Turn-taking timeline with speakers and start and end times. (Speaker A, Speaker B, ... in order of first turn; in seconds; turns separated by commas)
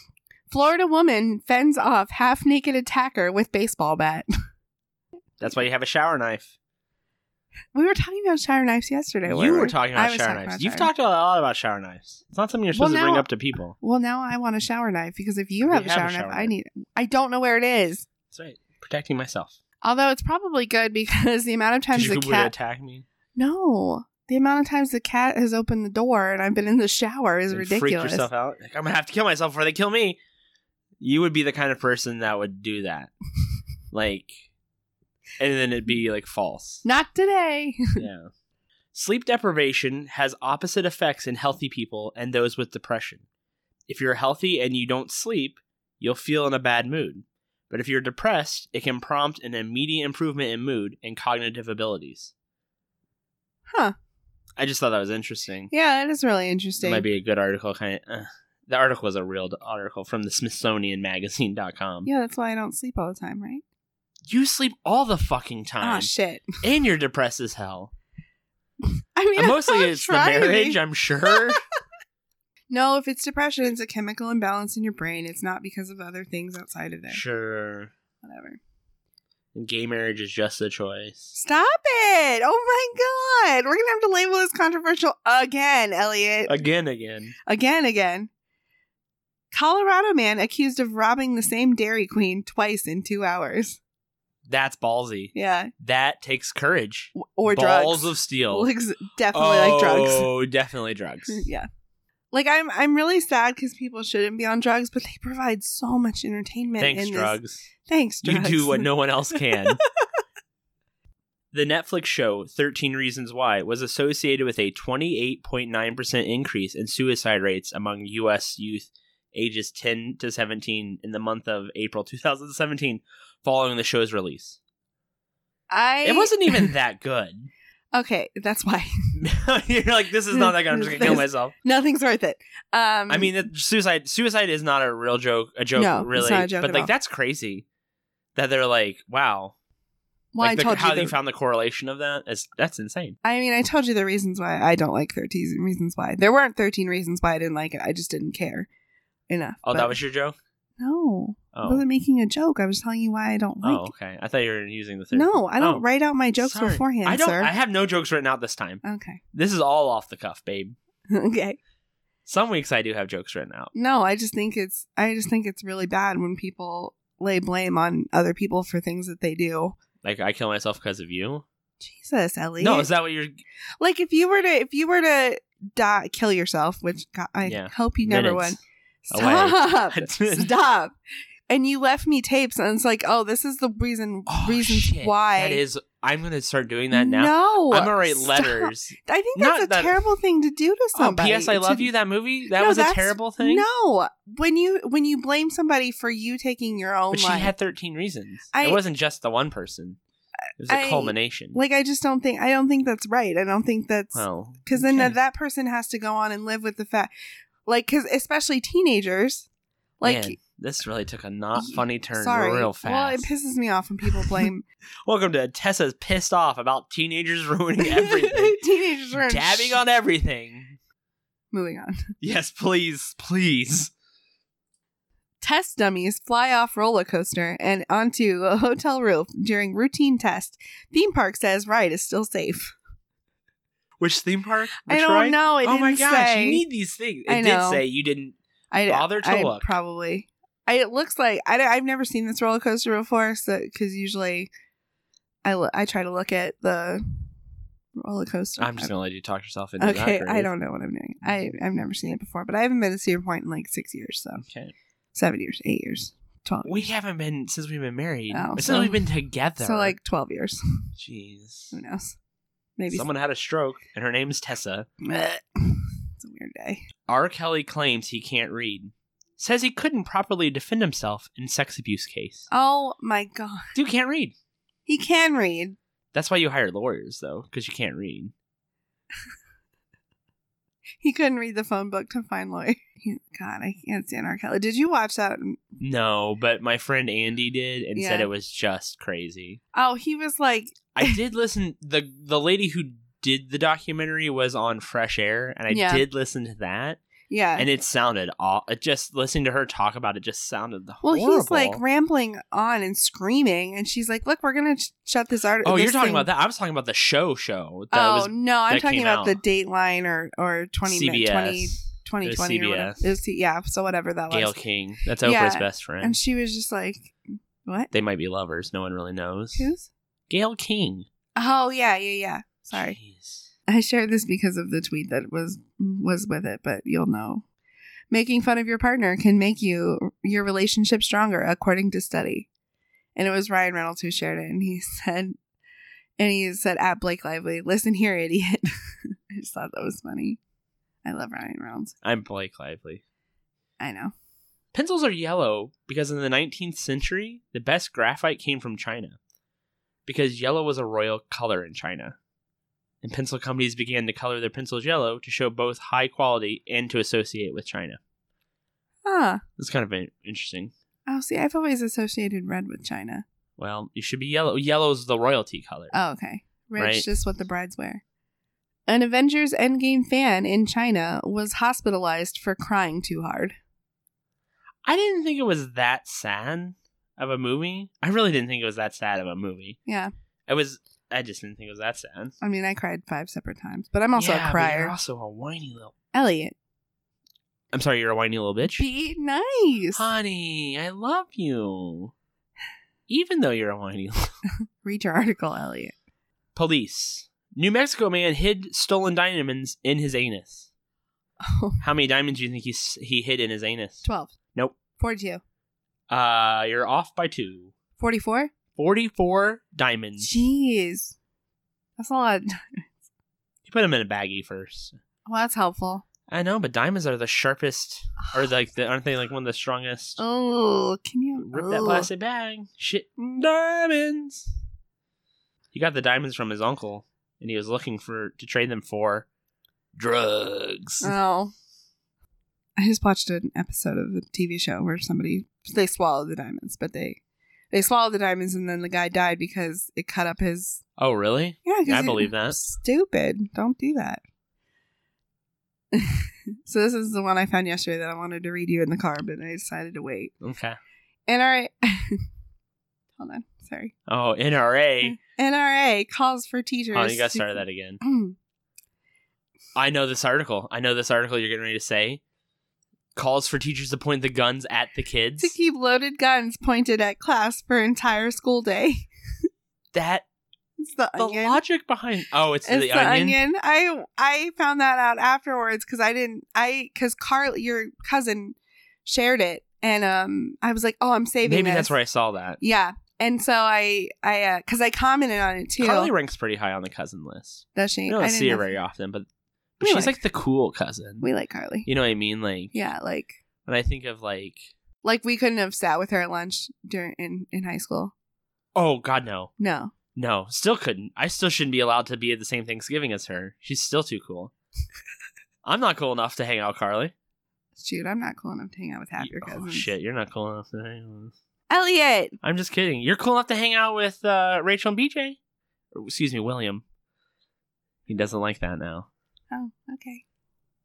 Speaker A: 0.5-4.3, Speaker B: 5.4-6.5, Speaker A: 7.7-10.9, Speaker B: 9.3-13.8, Speaker A: 12.7-13.3, Speaker A: 13.8-18.1, Speaker B: 15.7-16.5, Speaker B: 18.3-19.6, Speaker A: 19.8-22.5, Speaker B: 21.9-23.1, Speaker A: 23.4-28.3, Speaker B: 27.5-30.2, Speaker B: 31.0-33.1, Speaker B: 33.9-34.4, Speaker B: 35.4-36.9, Speaker A: 36.9-38.0, Speaker B: 38.0-38.3, Speaker B: 38.9-43.2, Speaker B: 43.9-52.3, Speaker A: 53.7-54.0, Speaker B: 54.6-55.7, Speaker A: 55.7-57.0, Speaker B: 56.8-62.1, Speaker A: 62.0-63.6, Speaker B: 64.3-67.9, Speaker A: 65.8-66.6, Speaker A: 69.2-70.8, Speaker B: 69.4-71.6, Speaker A: 71.3-71.6, Speaker A: 72.7-77.2, Speaker B: 77.1-77.9, Speaker A: 78.2-78.6, Speaker B: 79.5-81.3, Speaker A: 81.3-86.5, Speaker B: 86.5-87.3, Speaker A: 87.5-88.3, Speaker A: 89.5-93.8, Speaker B: 94.5-98.7, Speaker A: 95.3-95.7, Speaker A: 97.2-100.3, Speaker B: 99.3-101.5, Speaker A: 101.3-101.7, Speaker A: 102.3-108.9, Speaker B: 106.8-107.7, Speaker B: 108.2-109.8, Speaker B: 111.5-124.6, Speaker A: 125.7-126.7, Speaker B: 126.0-127.5, Speaker A: 127.9-129.2, Speaker B: 129.2-131.5, Speaker A: 130.3-133.4, Speaker B: 133.1-137.7, Speaker A: 135.8-136.9, Speaker B: 138.3-139.6, Speaker A: 140.3-141.2, Speaker B: 140.4-143.2, Speaker A: 143.2-148.7, Speaker A: 149.3-150.0, Speaker B: 149.7-150.4, Speaker A: 150.8-153.9, Speaker B: 151.5-151.8, Speaker B: 153.6-155.8, Speaker A: 155.1-157.5, Speaker B: 156.4-158.8, Speaker A: 158.8-159.2, Speaker B: 159.3-160.8, Speaker A: 161.1-161.6, Speaker B: 162.3-163.7, Speaker A: 163.8-169.8, Speaker B: 170.0-171.4, Speaker A: 171.8-172.9, Speaker B: 172.6-173.4, Speaker A: 173.8-181.0, Speaker B: 177.4-178.6, Speaker B: 179.1-180.5, Speaker A: 181.5-185.6, Speaker B: 184.3-190.0, Speaker A: 186.9-191.9, Speaker B: 190.9-193.7, Speaker A: 192.6-197.5, Speaker B: 197.1-200.0, Speaker A: 198.5-198.8, Speaker B: 200.6-201.6, Speaker A: 200.7-207.1, Speaker B: 204.1-205.2, Speaker A: 207.7-209.5, Speaker A: 210.0-210.4, Speaker B: 210.0-213.3, Speaker A: 211.6-214.7, Speaker B: 214.1-214.5, Speaker B: 215.1-218.6, Speaker A: 217.8-219.8, Speaker B: 219.1-220.8, Speaker A: 221.5-222.1, Speaker B: 222.2-223.9, Speaker A: 225.4-232.8, Speaker B: 234.0-238.4, Speaker A: 234.9-236.6, Speaker A: 237.3-237.8, Speaker A: 238.7-244.5, Speaker B: 238.9-239.8, Speaker A: 245.4-247.3, Speaker A: 248.0-248.9, Speaker B: 248.6-250.5, Speaker A: 249.8-254.4, Speaker B: 254.4-254.7, Speaker A: 255.1-256.8, Speaker B: 256.6-260.0, Speaker A: 258.3-259.0, Speaker A: 259.6-260.9, Speaker B: 261.0-261.7, Speaker A: 261.7-262.2, Speaker A: 262.8-263.1, Speaker B: 262.9-264.9, Speaker A: 265.0-266.8, Speaker B: 267.1-272.5, Speaker A: 272.5-273.7, Speaker B: 273.8-274.3, Speaker A: 274.9-275.8, Speaker B: 276.1-278.3, Speaker A: 281.0-285.6, Speaker B: 285.8-289.6, Speaker A: 287.9-288.3, Speaker A: 289.7-291.2, Speaker B: 290.9-297.0, Speaker A: 295.7-296.0, Speaker A: 297.3-297.7, Speaker B: 297.6-301.8, Speaker A: 301.0-306.3, Speaker B: 305.6-309.4, Speaker A: 307.9-314.5, Speaker B: 310.9-313.1, Speaker B: 314.3-316.2, Speaker A: 315.2-317.1, Speaker A: 317.6-317.9, Speaker B: 317.9-319.7, Speaker A: 319.6-319.9, Speaker B: 320.3-321.1, Speaker A: 321.4-323.0, Speaker B: 322.7-323.5, Speaker A: 323.7-327.4, Speaker A: 328.1-332.5, Speaker A: 333.2-335.4, Speaker A: 336.2-340.4, Speaker A: 341.0-341.9, Speaker B: 342.0-343.0, Speaker A: 343.8-344.1, Speaker B: 344.7-349.2, Speaker B: 350.1-352.2, Speaker B: 353.0-358.0, Speaker A: 359.1-359.4, Speaker B: 359.6-360.7, Speaker A: 361.1-363.2, Speaker B: 363.6-365.9, Speaker A: 365.9-368.0, Speaker B: 366.8-367.1, Speaker A: 368.9-373.6, Speaker B: 374.9-379.8, Speaker A: 379.9-380.1, Speaker B: 380.5-382.4, Speaker A: 382.4-384.9, Speaker B: 384.2-385.9, Speaker A: 386.1-386.6, Speaker B: 387.7-388.9, Speaker A: 388.8-390.1, Speaker B: 389.9-392.1, Speaker B: 393.1-394.3, Speaker A: 394.8-395.9, Speaker B: 396.6-400.7, Speaker A: 401.4-401.8, Speaker B: 401.8-404.8, Speaker A: 404.0-404.3, Speaker A: 405.0-405.4, Speaker B: 406.1-407.7, Speaker A: 408.0-408.5, Speaker B: 408.8-410.3, Speaker A: 410.2-411.2, Speaker A: 412.0-412.9, Speaker B: 413.6-415.0, Speaker A: 415.3-416.1, Speaker B: 416.3-420.2, Speaker A: 420.2-422.1, Speaker B: 421.5-424.5, Speaker B: 425.7-429.3, Speaker B: 429.9-431.1, Speaker A: 431.0-431.5, Speaker A: 432.8-437.2, Speaker A: 437.7-440.8, Speaker B: 441.0-442.6, Speaker A: 441.6-444.2, Speaker A: 445.9-450.3, Speaker B: 450.4-450.8, Speaker A: 451.3-452.2, Speaker A: 453.2-453.9, Speaker B: 454.1-455.2, Speaker A: 455.0-458.4, Speaker B: 456.9-458.0, Speaker B: 459.8-462.2, Speaker B: 463.1-465.6, Speaker A: 465.4-469.1, Speaker B: 469.9-470.2, Speaker A: 470.8-471.6, Speaker B: 471.2-473.4, Speaker A: 472.7-481.9, Speaker B: 481.4-482.6, Speaker A: 482.6-486.1, Speaker B: 485.8-489.3, Speaker A: 487.8-488.7, Speaker B: 489.8-491.3, Speaker A: 489.8-490.2, Speaker A: 491.2-491.9, Speaker B: 491.9-492.8, Speaker A: 492.7-493.4, Speaker B: 493.7-494.7, Speaker A: 495.0-498.1, Speaker B: 498.8-499.5, Speaker A: 499.6-499.9, Speaker B: 500.1-504.5, Speaker B: 505.6-507.1, Speaker A: 507.8-509.9, Speaker B: 509.2-511.3, Speaker A: 511.7-512.4, Speaker B: 512.4-515.4, Speaker B: 515.9-516.8, Speaker B: 518.1-519.1, Speaker A: 519.5-520.2